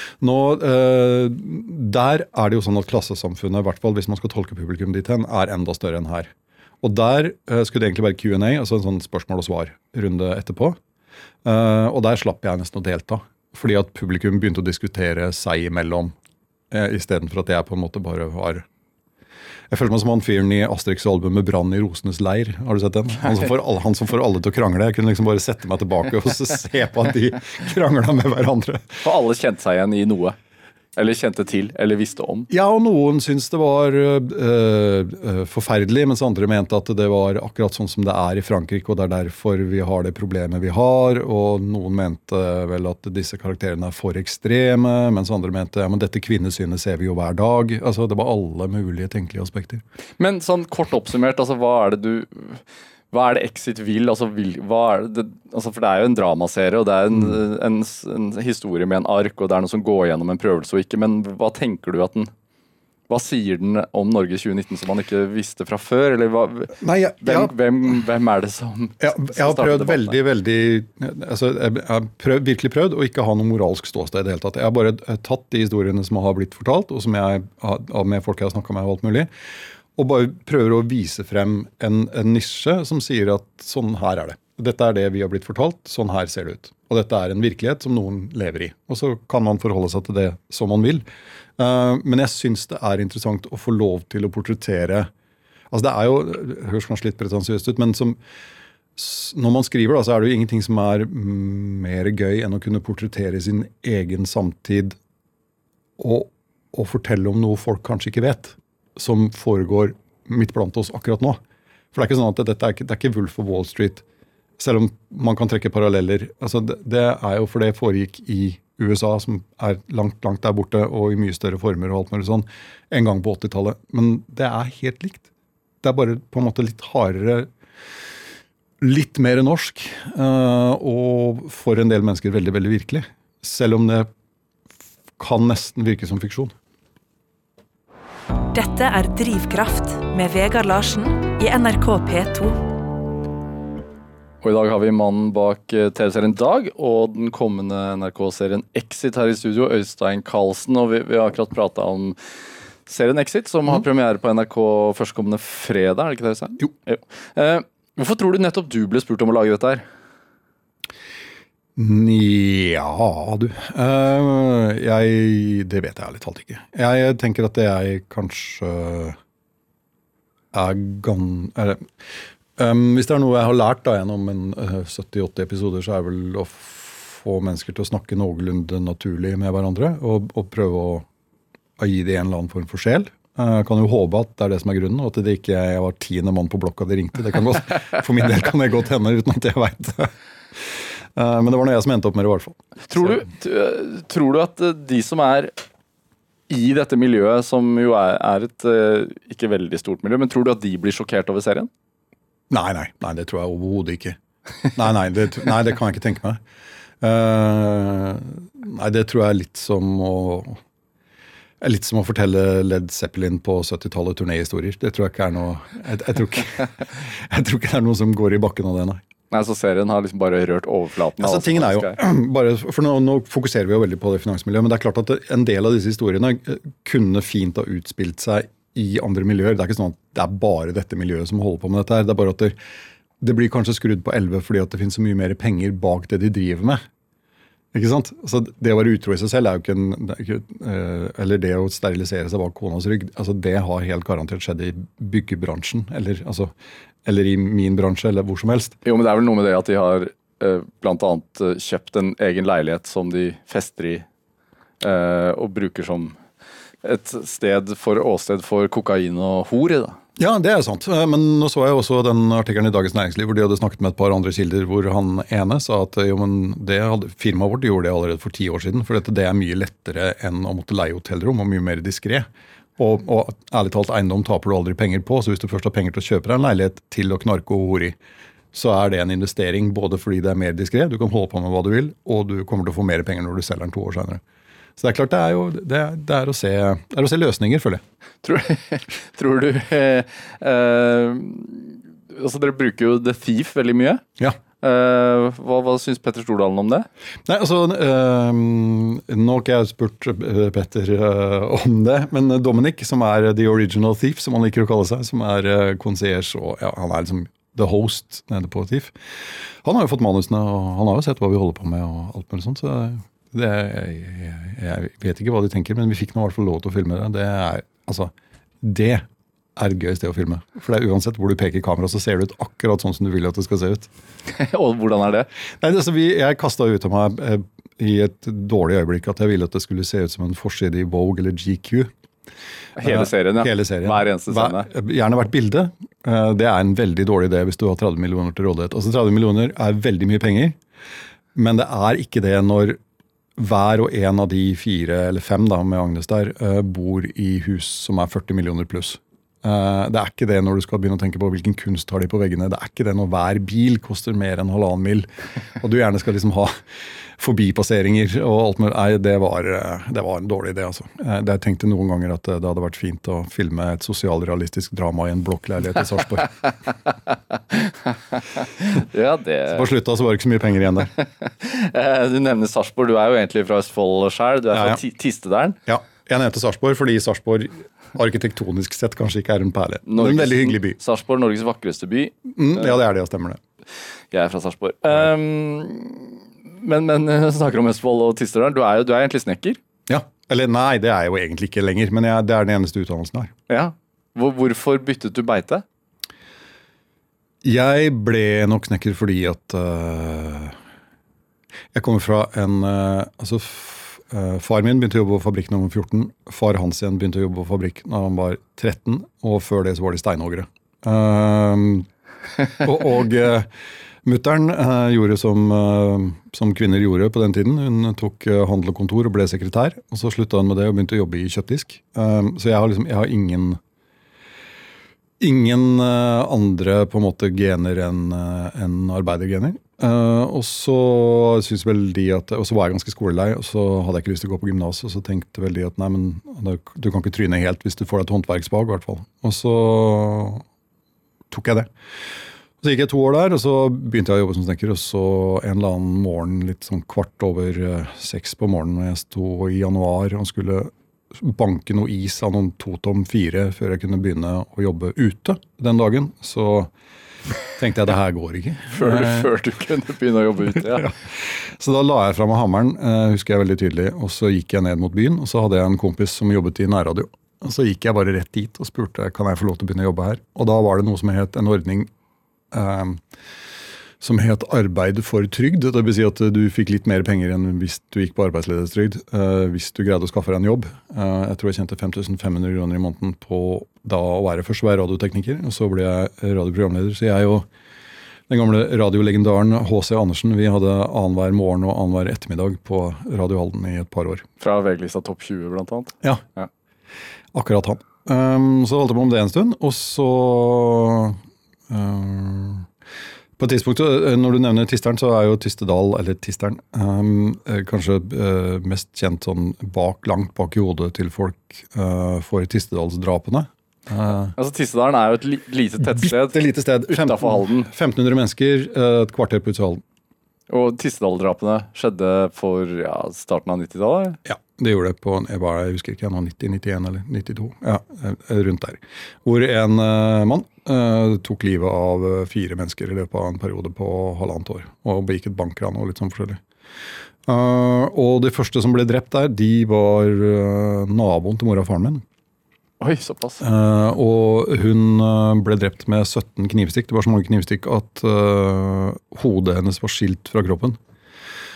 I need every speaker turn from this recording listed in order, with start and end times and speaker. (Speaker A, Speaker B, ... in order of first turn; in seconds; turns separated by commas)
Speaker A: 0.2-10.8, Speaker A: 11.4-16.1, Speaker A: 16.7-18.6, Speaker A: 19.7-29.0, Speaker B: 29.0-30.4, Speaker B: 30.9-32.5, Speaker A: 32.5-49.8, Speaker B: 50.2-62.3, Speaker B: 63.1-70.2, Speaker A: 66.8-67.5, Speaker A: 69.0-79.3, Speaker A: 80.0-91.0, Speaker A: 91.6-95.1, Speaker A: 95.7-98.2, Speaker A: 99.0-105.0, Speaker A: 106.0-111.4, Speaker A: 111.9-114.0, Speaker A: 114.6-125.2, Speaker A: 125.8-127.5, Speaker A: 128.8-134.1, Speaker A: 135.2-136.5, Speaker C: 138.5-142.6, Speaker B: 144.4-152.2, Speaker B: 152.8-159.8, Speaker A: 161.8-169.2, Speaker A: 170.5-171.9, Speaker A: 172.6-181.1, Speaker A: 181.8-190.1, Speaker A: 190.6-193.2, Speaker B: 192.9-195.5, Speaker B: 196.5-201.7, Speaker A: 202.5-204.2, Speaker A: 204.7-206.4, Speaker A: 207.0-210.6, Speaker A: 211.6-219.0, Speaker B: 219.3-222.0, Speaker A: 221.2-232.6, Speaker A: 233.2-236.8, Speaker A: 237.7-246.5, Speaker A: 247.0-248.8, Speaker B: 248.8-254.1, Speaker B: 254.8-256.2, Speaker B: 256.8-260.0, Speaker A: 260.2-277.9, Speaker A: 278.5-284.2, Speaker A: 284.8-287.8, Speaker B: 288.2-294.0, Speaker B: 294.6-296.9, Speaker A: 297.2-308.9, Speaker A: 309.6-319.0, Speaker A: 319.6-323.9, Speaker B: 324.3-325.3, Speaker A: 325.6-331.9, Speaker B: 332.8-334.7, Speaker A: 332.8-340.6, Speaker A: 341.3-342.8, Speaker A: 343.4-356.6, Speaker A: 357.2-366.3, Speaker B: 367.7-369.7, Speaker A: 369.5-370.9, Speaker B: 371.2-375.6, Speaker A: 374.5-374.8, Speaker A: 375.6-380.8, Speaker B: 379.9-382.7, Speaker A: 382.3-383.4, Speaker B: 384.1-389.6, Speaker A: 389.9-393.3, Speaker B: 393.5-395.6, Speaker A: 397.4-400.6, Speaker A: 401.7-411.9, Speaker A: 412.6-413.5, Speaker A: 414.0-423.6, Speaker A: 425.2-440.4, Speaker A: 441.3-441.7, Speaker A: 442.6-456.7, Speaker A: 457.6-459.3, Speaker B: 458.7-460.9, Speaker A: 460.5-471.9, Speaker A: 472.5-473.0, Speaker A: 474.0-487.5, Speaker A: 488.3-494.2, Speaker B: 494.4-496.5, Speaker A: 497.3-502.7, Speaker A: 503.4-514.3, Speaker B: 514.4-517.7, Speaker A: 515.8-519.8, Speaker B: 520.5-524.2, Speaker A: 524.2-536.4, Speaker A: 537.2-542.0, Speaker B: 542.8-543.4, Speaker A: 543.4-550.8